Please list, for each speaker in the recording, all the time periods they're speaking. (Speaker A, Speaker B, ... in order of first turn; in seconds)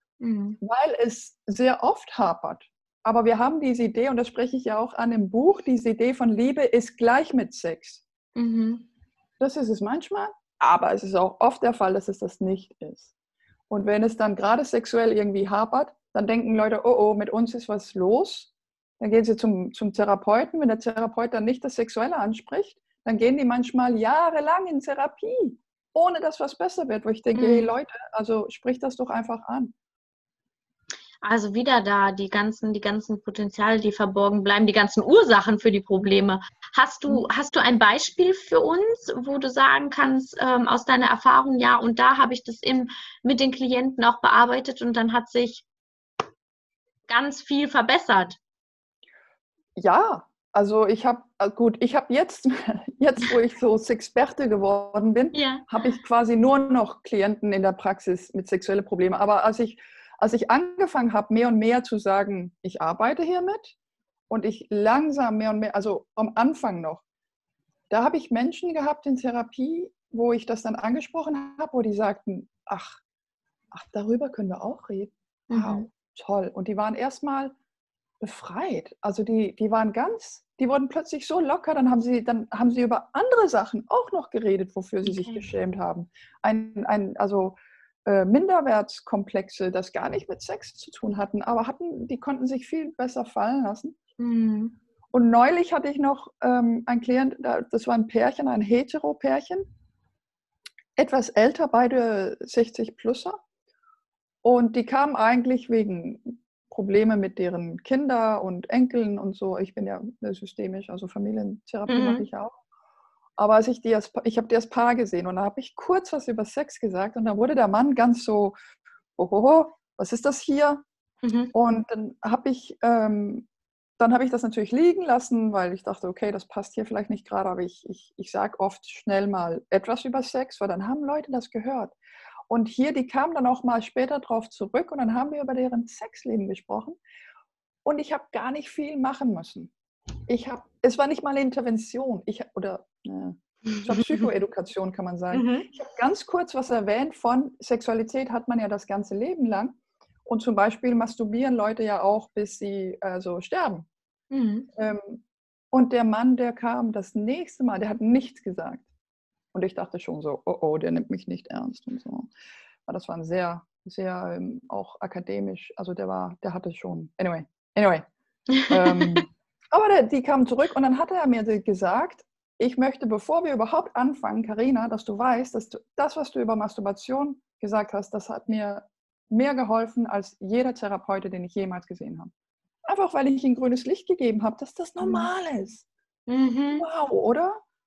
Speaker A: 0.2-0.6, 8.3-8.9, 27.3-27.7, 31.2-45.6, 47.1-48.4, 55.3-55.7, 75.5-75.9, 85.0-85.5, 94.2-94.8, 111.9-112.2, 121.2-121.5, 143.8-144.3, 145.3-145.7, 154.3-154.7, 168.5-169.2, 185.0-185.3, 186.3-186.8
Speaker B: 0.6-8.0, 9.4-13.1, 13.7-29.7, 49.8-63.7, 64.3-67.0, 67.9-73.0, 73.7-77.5, 78.2-94.0, 95.1-99.6, 101.0-103.4, 104.4-112.5, 113.4-118.5, 119.2-120.8, 121.5-123.5, 124.0-131.9, 132.5-137.0, 137.8-139.7, 140.3-153.9, 154.8-155.2, 155.7-158.8, 159.5-162.3, 162.9-168.1, 168.7-182.3, 182.8-185.8, 186.8-187.6